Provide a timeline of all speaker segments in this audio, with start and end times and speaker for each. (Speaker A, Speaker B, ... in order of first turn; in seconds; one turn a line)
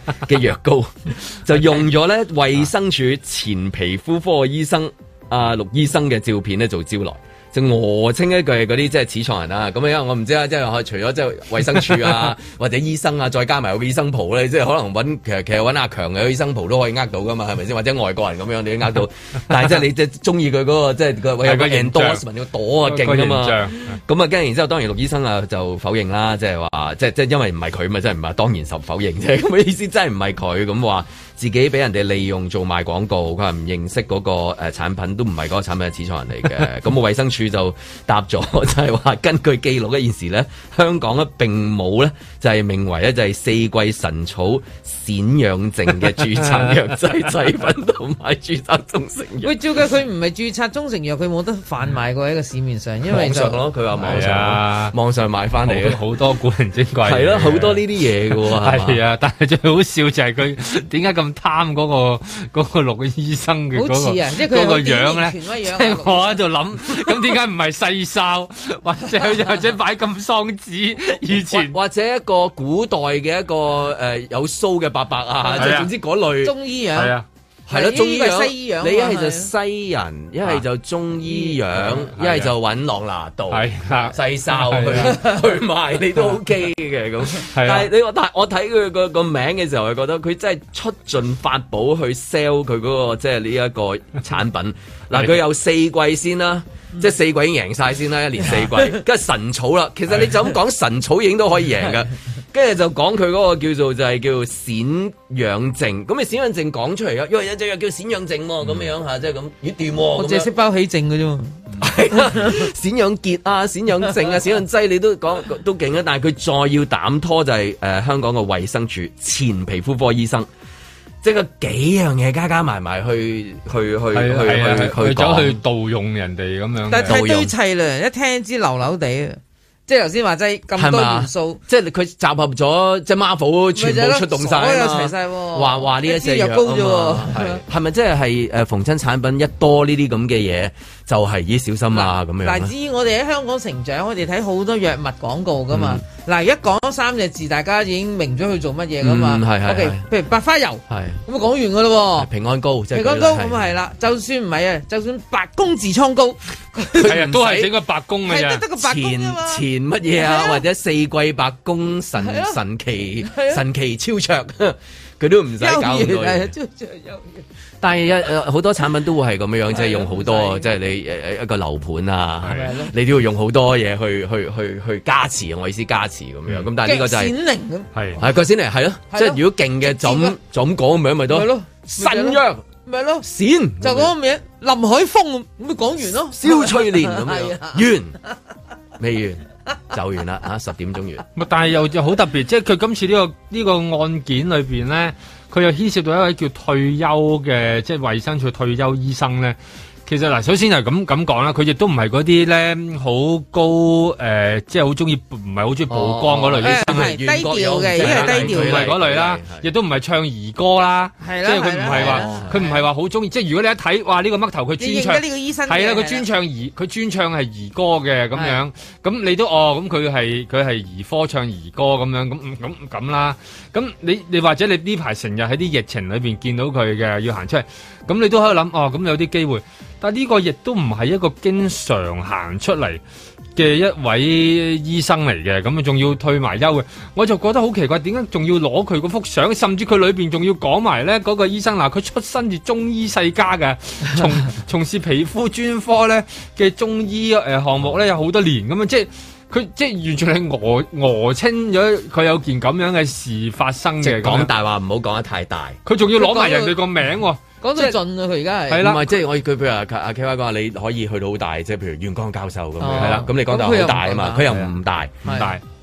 Speaker A: 0.2-49.5
Speaker B: 21.4-22.2
Speaker B: 22.9-24.0
Speaker B: 46.3-46.8
Speaker C: 49.4-53.6
Speaker A: 53.0-56.0
Speaker B: 54.0-55.0
Speaker B: 55.7-71.8
Speaker A: 57.0-59.0
Speaker C: 63.7-66.4
Speaker A: 71.5-76.6
Speaker C: 75.4-75.8
Speaker B: 75.6-75.9
Speaker C: 76.4-77.1
Speaker B: 77.0-77.2
Speaker A: 77.7-110.5
Speaker C: 77.7-79.5
Speaker B: 82.1-82.5
Speaker B: 83.5-85.2
Speaker B: 87.4-87.9
Speaker C: 110.2-111.7
Speaker A: 111.8-120.5
Speaker A: 121.2-125.6
Speaker B: 124.1-127.2
Speaker C: 126.9-131.6
Speaker A: 127.1-127.5
Speaker A: 130.8-142.7
Speaker C: 133.8-137.6
Speaker C: 141.9-152.3
Speaker A: 145.7-146.0
Speaker A: 149.0-150.1
Speaker A: 150.9-151.2
Speaker A: 152.2-153.7
Speaker C: 152.9-156.9
Speaker A: 156.9-157.8
Speaker B: 157.0-158.7
Speaker C: 158.3-160.6
Speaker A: 158.8-166.5
Speaker C: 162.2-162.6
Speaker C: 163.2-163.6
Speaker C: 165.6-167.4
Speaker A: 167.8-177.3
Speaker C: 169.7-170.7
Speaker B: 172.4-172.7
Speaker C: 172.5-172.9
Speaker C: 176.8-177.9
Speaker B: 177.9-178.2
Speaker A: 178.2-182.6
Speaker C: 179.1-180.4
Speaker C: 181.3-183.3
Speaker A: 183.2-184.1
Speaker C: 183.8-187.8
Speaker A: 186.3-188.2
Speaker A: 189.0-191.3
Speaker B: 191.4-207.1
Speaker A: 205.9-209.7
Speaker C: 206.6-208.9
Speaker B: 208.0-233.0
Speaker C: 211.2-212.8
Speaker A: 211.9-212.7
Speaker C: 214.8-216.3
Speaker C: 218.3-218.6
Speaker B: 233.6-254.5
Speaker A: 254.0-255.8
Speaker B: 255.9-258.0
Speaker C: 256.1-256.8
Speaker C: 257.6-258.8
Speaker B: 258.7-259.1
Speaker A: 258.8-265.3
Speaker C: 262.8-264.5
Speaker B: 263.0-263.3
Speaker C: 265.2-265.5
Speaker B: 265.3-265.6